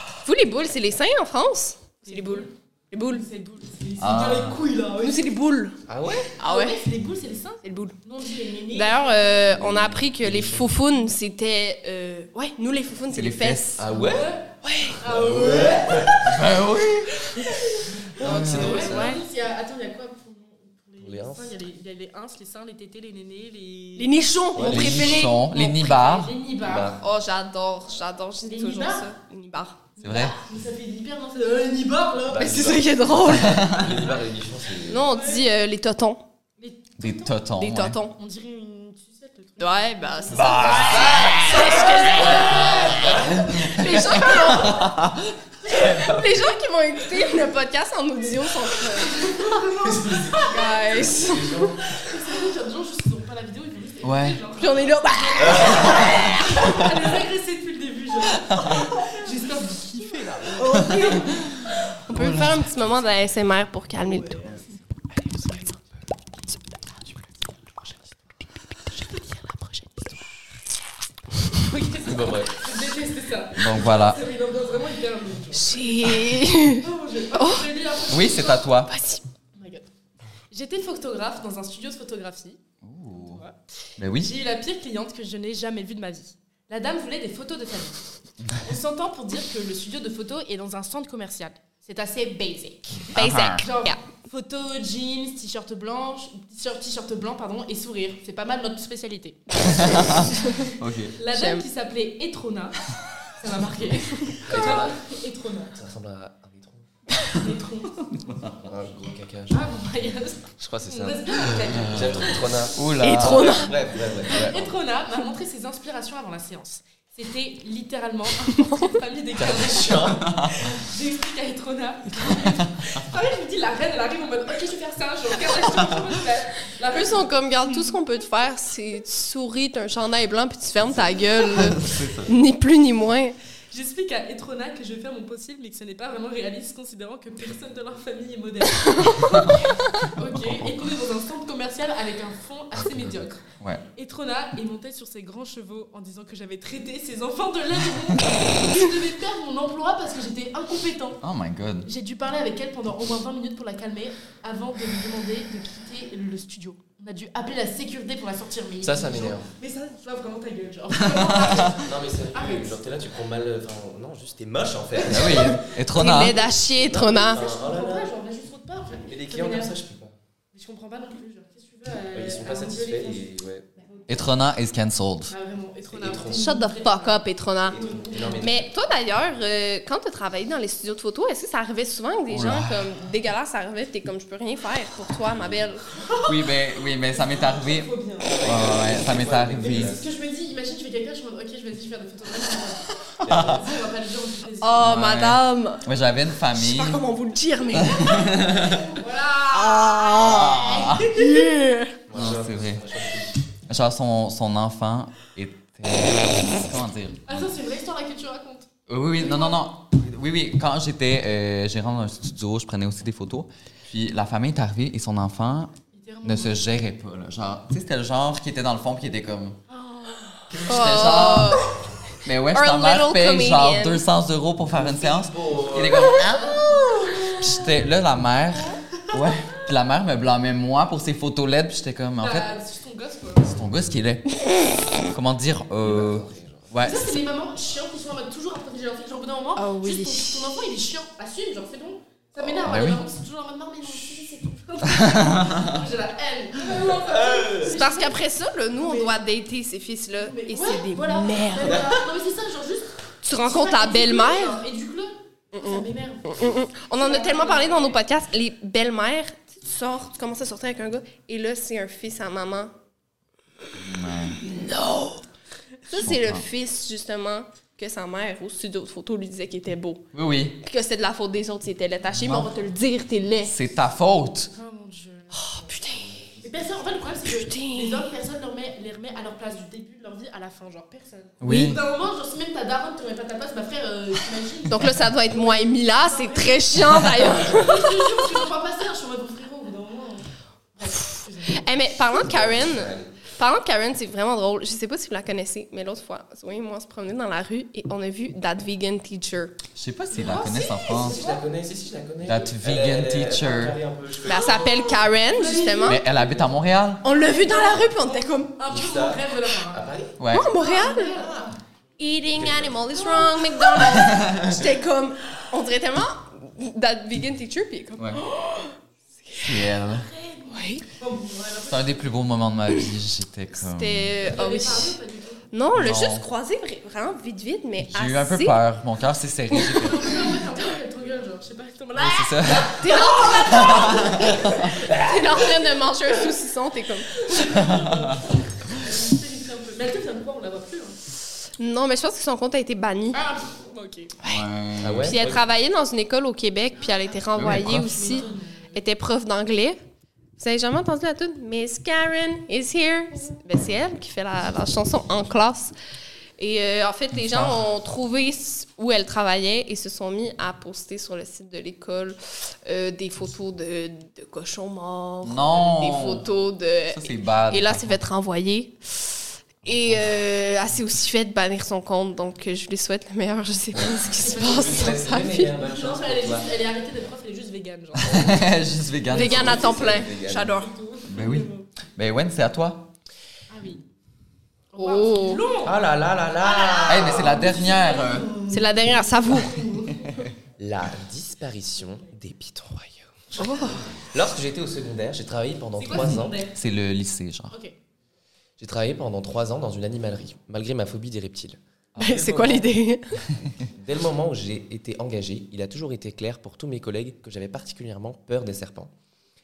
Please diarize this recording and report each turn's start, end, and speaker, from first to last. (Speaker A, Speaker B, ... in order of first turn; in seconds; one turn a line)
Speaker A: 0.2-3.2
Speaker B: 2.0-2.5
Speaker B: 3.1-5.3
Speaker C: 4.0-4.6
Speaker A: 5.0-5.8
Speaker D: 5.9-6.3
Speaker A: 6.4-6.8
Speaker B: 6.4-9.5
Speaker A: 7.6-8.0
Speaker A: 8.7-13.8
Speaker D: 9.5-10.7
Speaker C: 13.1-13.8
Speaker D: 13.8-14.3
Speaker B: 13.9-14.5
Speaker A: 14.6-15.0
Speaker B: 15.0-16.1
Speaker D: 15.0-16.4
Speaker C: 16.2-17.3
Speaker D: 18.2-19.2
Speaker C: 18.2-18.9
Speaker B: 18.2-24.2
Speaker A: 18.7-19.2
Speaker D: 21.0-21.6
Speaker A: 24.0-26.2
Speaker D: 24.6-25.2
Speaker C: 24.6-26.3
Speaker B: 25.9-27.0
Speaker D: 26.6-27.0
Speaker A: 27.0-29.8
Speaker B: 28.4-29.1
Speaker B: 30.0-32.7
Speaker C: 30.0-30.4
Speaker D: 32.3-35.0
Speaker A: 32.4-33.7
Speaker C: 33.3-34.0
Speaker A: 34.9-36.2
Speaker B: 35.0-35.4
Speaker B: 36.6-37.4
Speaker C: 37.0-38.0
Speaker A: 37.6-38.1
Speaker B: 38.2-40.8
Speaker A: 39.6-42.9
Speaker C: 40.3-41.4
Speaker D: 40.6-43.7
Speaker B: 41.4-43.5
Speaker A: 43.6-44.9
Speaker C: 44.2-45.2
Speaker C: 45.8-46.2
Speaker A: 45.9-49.3
Speaker B: 49.1-50.9
Speaker D: 49.8-52.1
Speaker A: 50.4-51.7
Speaker B: 52.0-61.4
Speaker C: 54.0-54.4
Speaker A: 54.6-56.8
Speaker D: 55.5-55.8
Speaker C: 55.9-56.3
Speaker C: 58.4-58.9
Speaker C: 60.6-62.7
Speaker A: 62.1-64.6
Speaker A: 65.4-65.7
Speaker B: 69.2-69.9
Speaker B: 71.6-78.7
Speaker D: 72.0-72.5
Speaker C: 73.6-74.2
Speaker A: 75.5-77.7
Speaker C: 78.1-78.9
Speaker A: 78.9-79.2
Speaker B: 79.6-79.9
Speaker B: 80.5-82.6
Speaker C: 82.8-83.4
Speaker B: 83.1-83.5
Speaker C: 84.0-84.3
Speaker B: 84.2-88.0
Speaker B: 88.6-100.1
Speaker C: 93.1-93.7
Speaker A: 93.2-94.0
Speaker C: 99.6-101.2
Speaker B: 101.2-102.8
Speaker A: 101.3-101.7
Speaker B: 103.4-105.8
Speaker D: 104.5-105.0
Speaker D: 105.8-106.8
Speaker B: 107.3-108.2
Speaker D: 108.5-109.6
Speaker B: 109.5-112.7
Speaker D: 110.6-114.8
Speaker C: 112.8-113.7
Speaker A: 113.0-113.7
Speaker B: 114.3-127.3
Speaker D: 119.3-120.4
Speaker C: 122.4-122.7
Speaker A: 126.9-133.3
Speaker C: 131.5-132.3
Speaker B: 133.7-143.4
Speaker C: 139.3-139.7
Speaker C: 140.3-140.8
Speaker B: 144.0-151.2
Speaker C: 151.2-151.9
Speaker B: 151.9-162.8
Speaker D: 158.8-159.5
Speaker C: 161.0-161.7
Speaker D: 161.8-165.7
Speaker C: 165.1-166.4
Speaker A: 165.9-167.4
Speaker D: 166.8-168.1
Speaker B: 167.3-169.8
Speaker D: 169.1-170.2
Speaker B: 170.5-174.3
Speaker D: 172.1-173.7
Speaker C: 174.1-175.3
Speaker B: 175.3-178.5
Speaker D: 175.9-176.5
Speaker A: 176.3-177.8
Speaker D: 177.7-178.7
Speaker A: 178.4-185.8
Speaker C: 182.3-182.9
Speaker B: 186.0-188.4
Speaker C: 186.2-189.9
Speaker D: 188.3-190.1
Speaker B: 189.6-194.8
Speaker C: 193.2-193.6
Speaker D: 193.2-193.6
Speaker A: 194.6-195.8
Speaker C: 194.8-197.0
Speaker A: 196.5-198.3
Speaker C: 197.8-198.9
Speaker B: 199.0-201.4
Speaker A: 199.7-200.5
Speaker C: 200.0-201.2
Speaker A: 201.1-202.0
Speaker D: 202.1-203.4
Speaker C: 202.1-202.9
Speaker C: 203.7-207.5
Speaker B: 207.3-209.6
Speaker C: 208.9-219.6
Speaker B: 215.9-216.6
Speaker B: 219.7-220.4
Speaker C: 220.5-221.7
Speaker A: 220.7-221.7
Speaker C: 222.2-232.5
Speaker A: 222.5-224.0
Speaker D: 224.7-226.2
Speaker B: 226.4-226.8
Speaker B: 232.2-233.6
Speaker C: 233.5-234.3
Speaker C: 235.1-237.2
Speaker D: 235.8-236.7
Speaker B: 236.8-248.2
Speaker A: 239.6-240.6
Speaker C: 242.6-243.0
Speaker C: 244.8-245.8
Speaker D: 246.7-247.7
Speaker A: 247.7-251.8
Speaker B: 248.8-249.2
Speaker B: 250.2-258.0
Speaker A: 253.2-254.6
Speaker A: 255.5-262.7
Speaker C: 263.8-264.4
Speaker A: 264.4-265.2
Speaker A: 265.9-270.1
Speaker C: 265.9-266.4
Speaker C: 270.1-270.6
Speaker A: 270.6-273.5
Speaker C: 272.2-272.5
Speaker C: 273.5-274.5
Speaker B: 274.5-275.7
Speaker A: 275.3-276.1
Speaker D: 275.9-277.0
Speaker B: 276.4-291.6
Speaker A: 277.3-278.1
Speaker C: 281.4-281.8
Speaker A: 284.7-287.9
Speaker A: 290.9-299.6
Speaker D: 292.2-293.1
Speaker C: 299.8-301.2
Speaker B: 300.1-301.4
Speaker D: 301.0-304.9
Speaker C: 302.2-303.8
Speaker A: 304.2-306.0
Speaker B: 304.4-306.0
Speaker C: 305.9-307.0
Speaker D: 306.2-306.4
Speaker A: 307.0-308.6
Speaker B: 307.1-309.8
Speaker D: 308.7-310.2
Speaker C: 310.2-310.5
Speaker A: 310.3-311.2
Speaker B: 310.5-311.5
Speaker D: 311.2-311.5
Speaker A: 312.0-318.8
Speaker D: 312.3-312.8
Speaker C: 313.9-314.6
Speaker A: 319.3-319.5
Speaker C: 319.4-320.1
Speaker B: 320.1-322.1
Speaker A: 320.5-320.8
Speaker C: 321.7-324.2
Speaker A: 323.6-325.0
Speaker B: 324.2-325.4
Speaker A: 325.5-328.6
Speaker C: 325.7-326.3
Speaker C: 327.9-330.2
Speaker B: 329.7-334.3
Speaker C: 332.0-332.9
Speaker A: 332.7-334.2
Speaker C: 333.5-334.6
Speaker D: 334.7-335.4
Speaker A: 334.9-337.2
Speaker B: 337.2-341.0
Speaker C: 337.5-338.2
Speaker A: 341.6-343.2
Speaker B: 343.1-344.1
Speaker C: 344.2-345.2
Speaker D: 344.8-345.4
Speaker A: 345.0-349.8
Speaker B: 346.8-348.8
Speaker C: 347.4-347.9
Speaker A: 350.4-355.7
Speaker A: 356.4-375.5
Speaker C: 357.1-357.6
Speaker C: 365.2-366.3
Speaker C: 366.9-368.0
Speaker B: 374.2-378.2
Speaker D: 374.3-376.5
Speaker C: 378.0-379.6
Speaker D: 378.1-380.6
Speaker A: 379.1-380.7
Speaker B: 379.7-381.7
Speaker C: 381.1-382.9
Speaker B: 383.5-383.8
Speaker B: 384.7-385.8
Speaker A: 384.8-385.4
Speaker D: 385.6-387.6
Speaker B: 386.4-390.2
Speaker C: 386.9-388.3
Speaker A: 388.5-389.6
Speaker D: 390.6-396.4
Speaker A: 393.4-393.8
Speaker B: 395.8-396.5
Speaker C: 396.0-397.6
Speaker D: 398.6-402.7
Speaker A: 402.0-403.1
Speaker D: 403.7-408.9